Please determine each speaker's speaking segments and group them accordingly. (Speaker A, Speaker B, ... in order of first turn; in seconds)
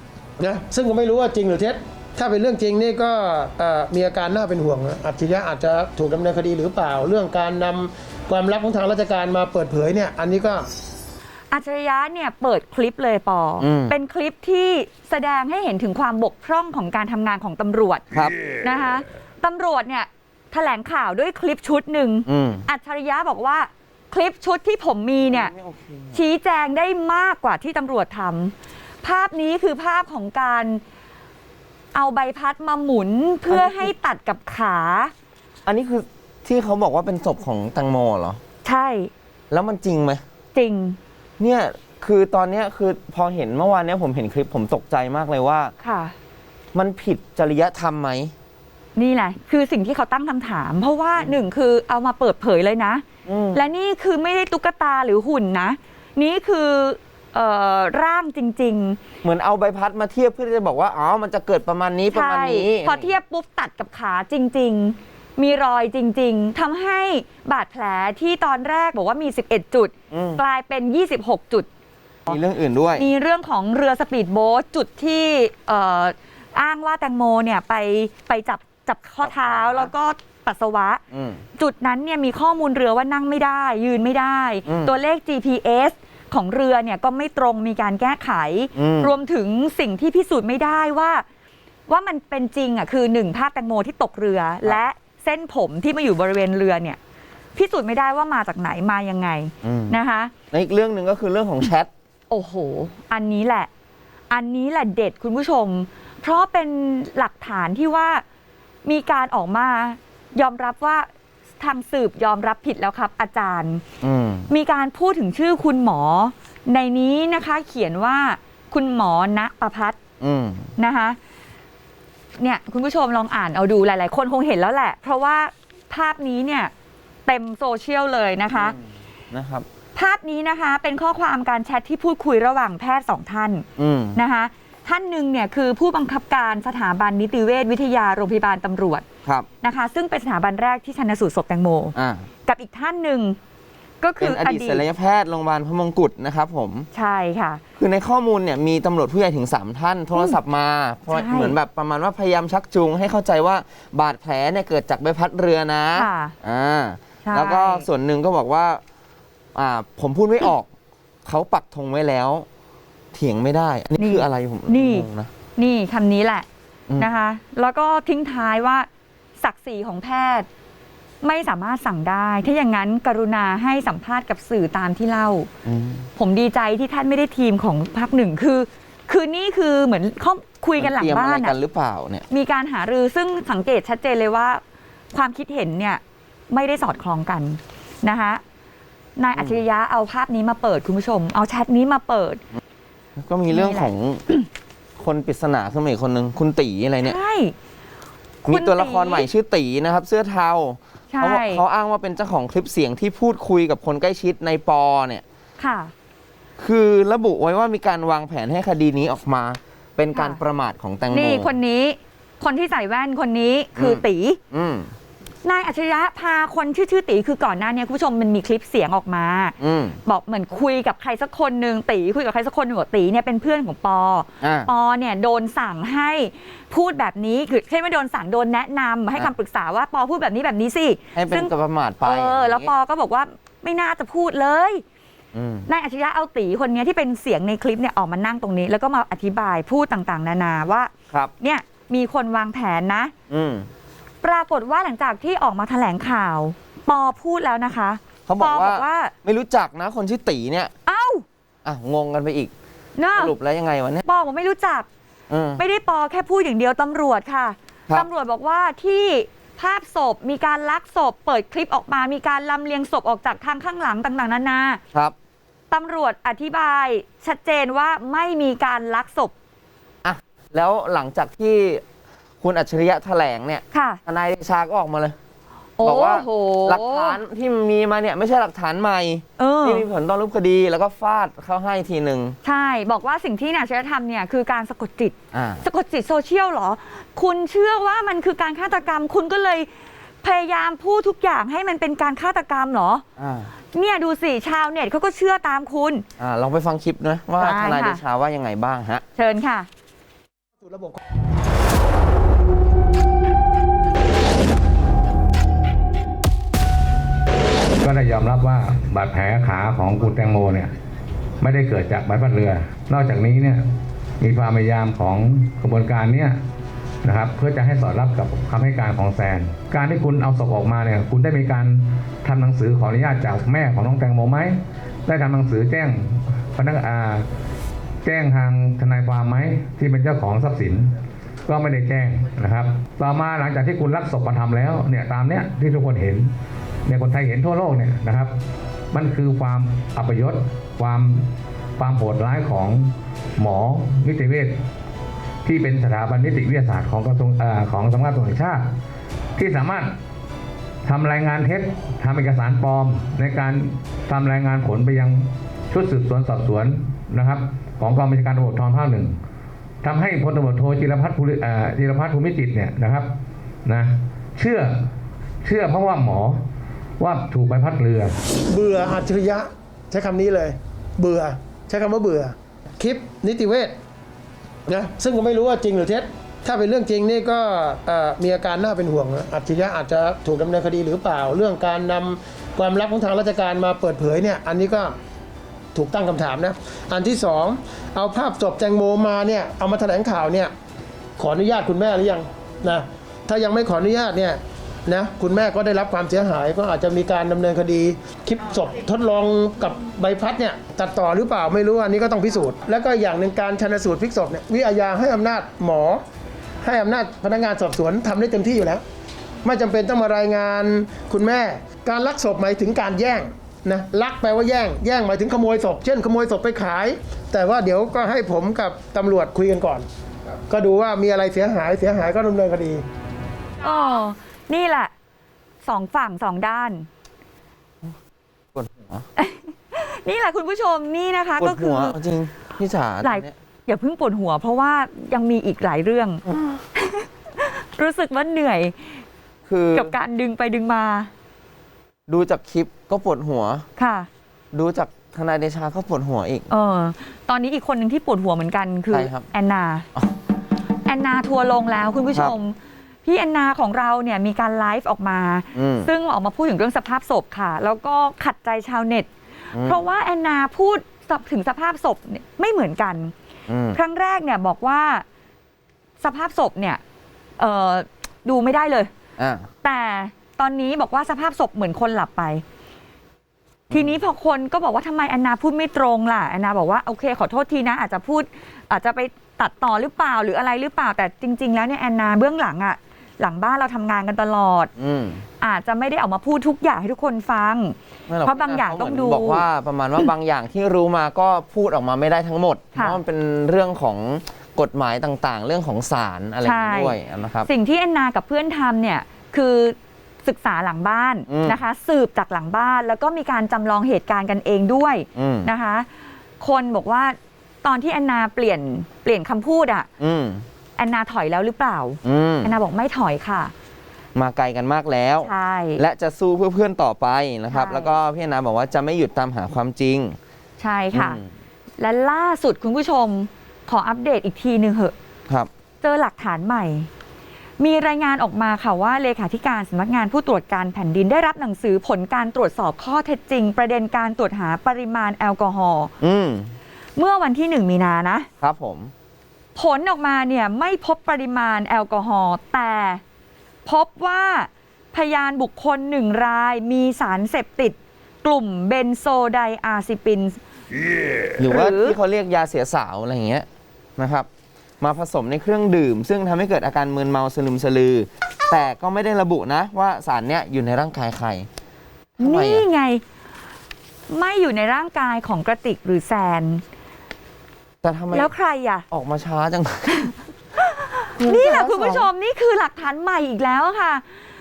Speaker A: 0.4-10.7, 300.6-301.0, 368.5-373.7, 374.7-384.9, 385.8-390.5, 391.2-406.0, 406.6-408.8, 409.4-419.9, 420.5-422.8
Speaker B: 11.5-18.0, 18.6-25.5, 26.1-30.8, 31.9-35.1, 38.6-39.1, 40.5-41.0, 45.8-46.1, 49.0-59.0, 62.1-71.7, 73.0-81.0, 81.6-91.2, 91.9-97.0, 97.5-100.3, 102.3-103.7, 104.3-108.2, 108.8-111.1, 111.6-113.8, 114.5-120.0, 120.8-121.2, 122.4-126.7, 127.3-128.8, 129.9-139.0, 139.6-141.9, 142.4-143.4, 144.0-144.8, 146.9-147.6, 151.1-151.6, 155.9-156.3, 157.2-157.8, 164.0-166.5, 167.0-168.9, 169.4-170.5, 171.2-175.5, 176.2-181.6, 182.3-184.6, 185.1-188.4, 189.2-192.4, 193.5-194.4, 197.0-197.5, 198.4-199.3, 201.1-201.6, 205.6-205.9, 210.1-210.4, 211.1-214.4, 215.4-234.8, 235.7-243.1, 244.2-249.1, 250.8-251.2, 253.0-253.3, 254.1-254.9, 255.6-264.8, 265.7-269.3, 273.7-274.0, 275.8-277.2, 279.4-279.9, 282.4-289.7, 290.2-293.0, 293.7-296.1, 297.4-298.0, 299.2-299.7, 423.6-424.9, 425.6-426.9, 429.2-432.0, 433.0-436.2, 436.8-438.9, 439.7-441.1, 443.8-444.1, 446.5-449.9, 450.9-459.1, 459.6-463.1, 463.7-465.1, 466.0-466.8, 467.4-468.9, 469.6-472.4, 473.7-484.7, 485.4-489.4, 492.8-493.0, 496.4-505.9, 506.4-509.9, 510.8-513.5, 515.2-515.8, 517.5-517.9, 520.6-521.2, 521.8-524.9, 525.8-526.9, 527.6-535.9, 537.0-538.3, 539.5-543.0, 543.6-550.4, 551.4-552.0, 562.2-563.0, 564.1-566.6, 568.1-568.8, 570.6-574.0
Speaker C: 13.6-13.9, 18.1-18.4, 22.3-22.7, 25.2-26.2, 33.5-33.9, 35.7-38.4, 39.5-40.2, 41.4-45.7, 46.7-48.3, 53.3-53.6, 59.2-63.1, 70.1-70.4, 72.3-73.1, 79.2-79.9, 81.1-81.4, 84.7-84.9, 88.8-89.1, 99.6-100.0, 100.5-101.9, 114.0-114.5, 120.2-120.7, 128.5-128.8, 129.3-129.7, 133.8-134.2, 141.9-142.3, 144.2-146.9, 147.8-158.8, 159.5-160.7, 161.2-162.4, 163.1-165.3, 175.6-176.1, 180.8-182.2, 193.2-194.2, 195.0-197.2, 198.4-205.2, 206.6-211.5, 213.8-214.9, 219.6-220.0, 224.4-224.7, 231.1-232.7, 235.3-235.7, 243.3-243.7, 248.3-250.7, 251.7-252.5, 253.2-254.0, 255.3-255.6, 270.0-271.8, 272.4-275.2, 275.8-282.4, 285.3-285.6, 293.2-293.5, 296.2-299.0, 428.5-429.1, 431.4-433.3, 439.5-439.9, 442.1-443.6, 444.5-446.5, 448.9-449.3, 455.6-455.9, 459.5-459.8, 463.5-463.8, 469.2-469.5, 473.7-474.0, 484.8-485.2, 488.1-497.5, 501.3-501.6, 505.2-505.5, 510.0-510.4, 512.0-512.5, 514.1-520.2, 520.9-521.2, 536.0-536.5, 538.4-538.9, 551.4-553.5, 554.0-554.3, 554.8-561.5, 562.2-562.6, 567.8-568.3, 568.9-570.1, 571.1-572.1
Speaker D: 307.8-310.7, 311.4-313.6, 314.2-316.4, 317.0-327.2, 328.0-330.9, 331.5-336.3, 336.9-338.3, 338.9-344.6, 345.4-348.7, 349.4-349.9, 350.9-359.1, 359.8-363.1, 363.6-364.8, 365.4-366.4, 367.0-368.2